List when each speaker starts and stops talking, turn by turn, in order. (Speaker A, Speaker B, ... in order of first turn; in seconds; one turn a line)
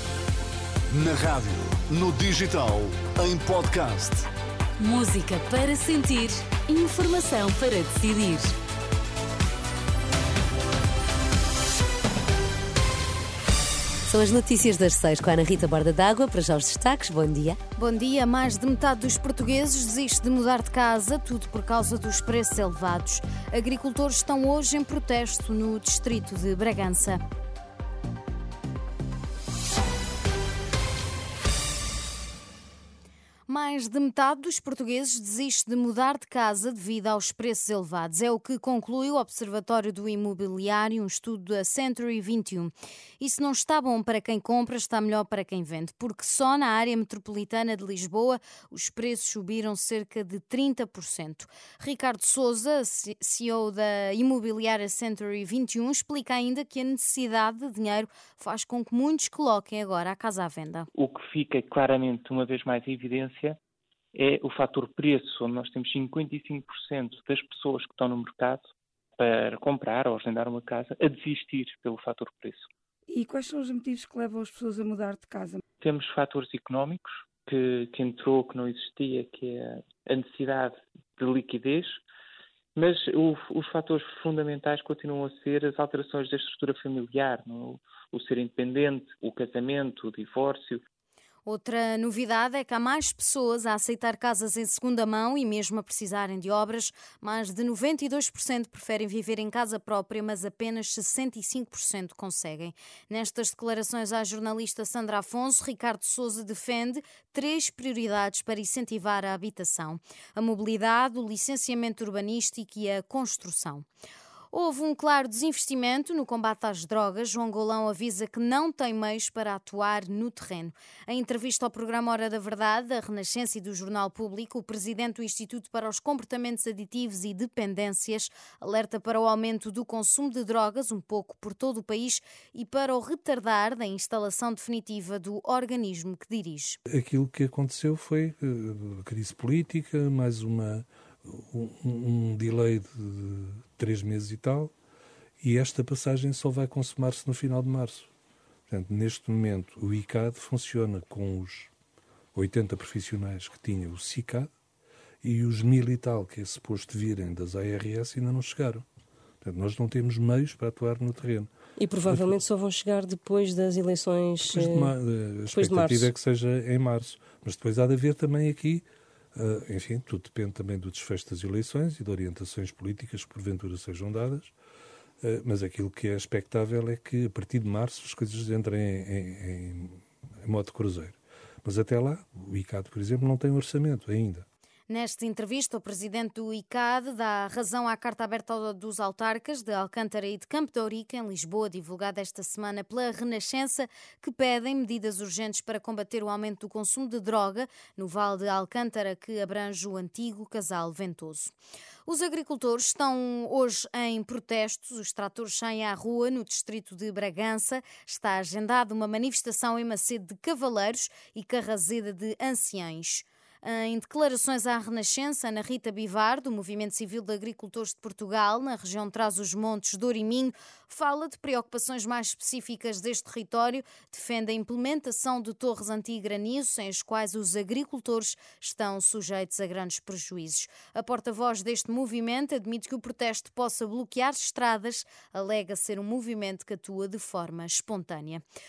Speaker A: 0.9-4.3
Speaker B: 4.8-8.5
Speaker B: 14.1-17.6
Speaker C: 17.8-27.2
Speaker C: 33.5-60.9
Speaker D: 60.9-63.6
Speaker D: 64.1-72.7
Speaker E: 73.1-75.6
Speaker D: 75.8-82.0
Speaker D: 82.8-90.8
Speaker C: 91.5-113.8
Speaker C: 114.5-136.8
Speaker F: 136.9-144.7
Speaker F: 145.4-148.1
Speaker F: 148.7-151.7
Speaker F: 152.3-154.5
Speaker F: 155.2-158.8
Speaker F: 159.4-161.5
Speaker G: 161.8-164.9
Speaker F: 162.1-162.4
Speaker F: 164.4-168.8
Speaker G: 165.5-166.1
Speaker F: 169.3-174.5
Speaker F: 175.2-184.4
Speaker C: 184.9-201.5
Speaker C: 202.1-238.4